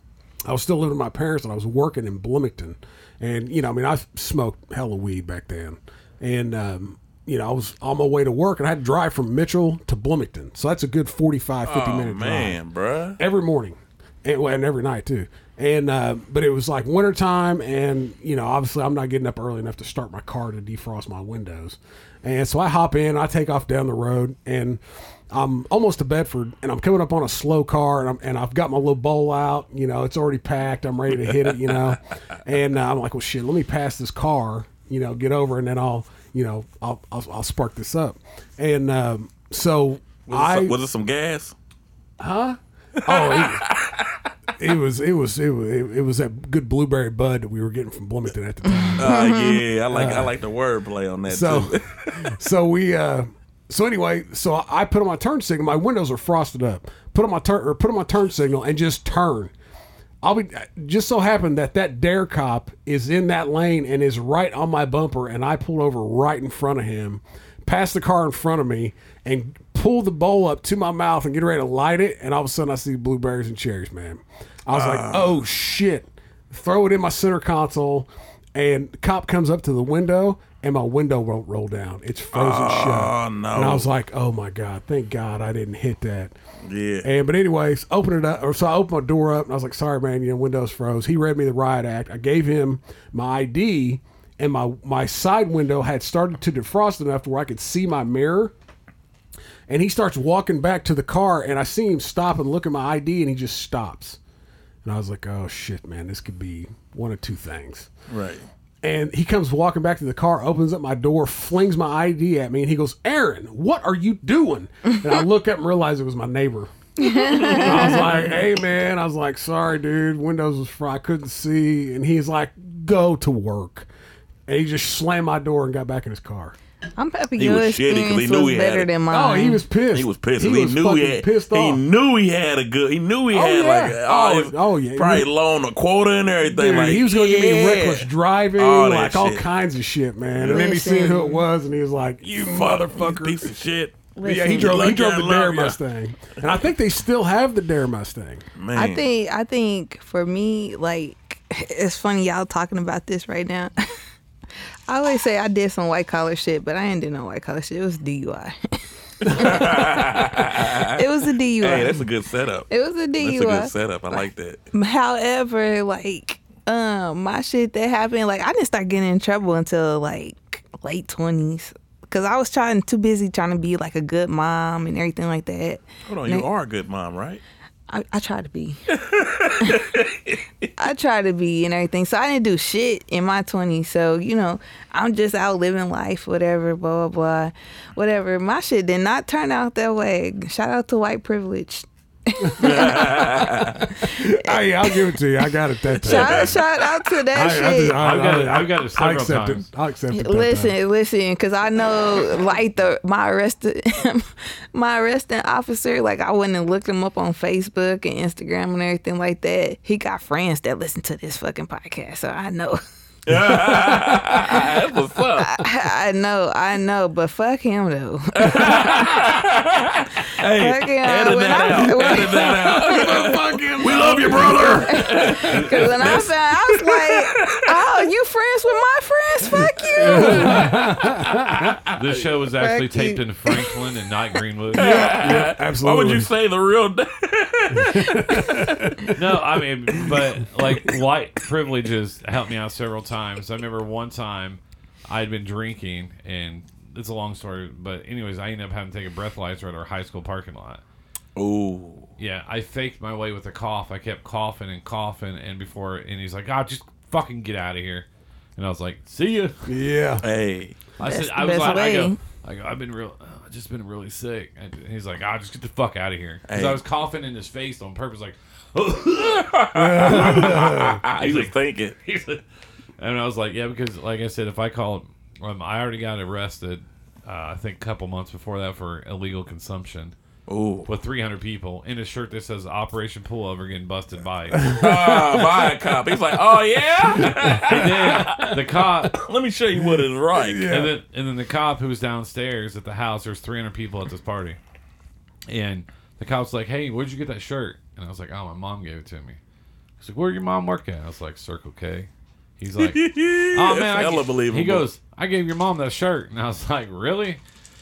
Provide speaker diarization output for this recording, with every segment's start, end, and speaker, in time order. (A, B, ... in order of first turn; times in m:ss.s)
0:00.5-0:12.6 A
0:11.6-0:13.2 B
0:13.2-0:24.8 A
0:25.3-0:40.8 A
0:40.3-0:41.6 B
0:42.2-0:43.7 A
0:43.0-0:44.2 B
0:44.6-0:49.2 A
0:48.8-0:49.6 C
0:49.0-0:52.4 B
0:49.9-0:50.4 A
0:51.3-0:59.5 A
1:00.2-1:26.4 A
1:14.7-1:15.3 B
1:22.3-1:23.9 B
1:26.6-1:27.1 B
1:27.0-1:38.5 A
1:39.7-1:44.2 A
1:44.8-1:47.9 A
1:48.1-1:48.5 B
1:48.8-1:56.7 A
1:57.0-1:58.3 C
1:57.2-1:58.2 B
1:57.4-2:03.9 A
2:04.5-2:06.6 A
2:07.0-2:09.6 C
2:07.4-2:08.9 B
2:09.1-2:11.8 A
2:09.9-2:19.4 B
2:13.3-2:15.3 A
2:16.5-2:23.5 A
2:20.4-2:20.7 B
2:20.5-2:21.4 C
2:22.4-2:25.8 B
2:24.2-2:24.9 C
2:24.2-2:28.4 A
2:28.6-2:29.1 B
2:28.8-2:33.8 C
2:34.9-2:42.0 C
2:39.2-2:44.6 B
2:42.7-2:43.7 C
2:44.7-2:56.5 C
2:56.1-2:57.4 B
2:57.9-2:58.8 C
2:58.9-3:00.7 B
2:59.6-2:59.9 C
3:00.8-3:15.1 C
3:12.4-3:13.2 A
3:12.6-3:13.9 B
3:13.8-3:16.6 A
3:16.0-3:18.0 C
3:16.0-3:16.6 B
3:17.3-3:20.8 A
3:18.0-3:19.7 D
3:20.1-3:32.8 C
3:33.3-3:35.7 B
3:33.7-3:34.8 C
3:35.4-3:39.4 C
3:38.4-3:48.1 B
3:40.5-3:43.3 C
3:42.0-3:45.7 A
3:44.3-3:50.7 C
3:45.6-3:45.9 D
3:49.9-3:51.8 B
3:50.0-3:51.8 A
3:51.9-3:55.0 D
3:52.5-3:53.7 C
3:54.8-3:56.3 A
3:54.8-3:58.8 B
3:57.7-3:59.2 A
3:59.1-4:10.8 D
4:00.0-4:00.2 A
4:11.4-4:12.1 B
4:12.2-4:19.6 D
4:19.7-4:20.2 A
4:20.2-4:20.8 B
4:21.0-4:32.4 D
4:21.0-4:22.2 C
4:26.5-4:26.8 B
4:29.4-4:32.0 B
4:29.7-4:31.0 A
4:33.0-4:40.2 D
4:40.5-4:40.9 B
4:40.9-4:44.8 D
4:44.5-4:45.8 A
4:44.6-4:50.7 B
4:47.2-4:47.9 A
4:47.6-4:49.2 D
4:49.8-4:50.9 A
4:50.7-4:54.6 D
4:55.5-4:59.4 D
5:00.0-5:07.4 D
5:02.8-5:04.9 B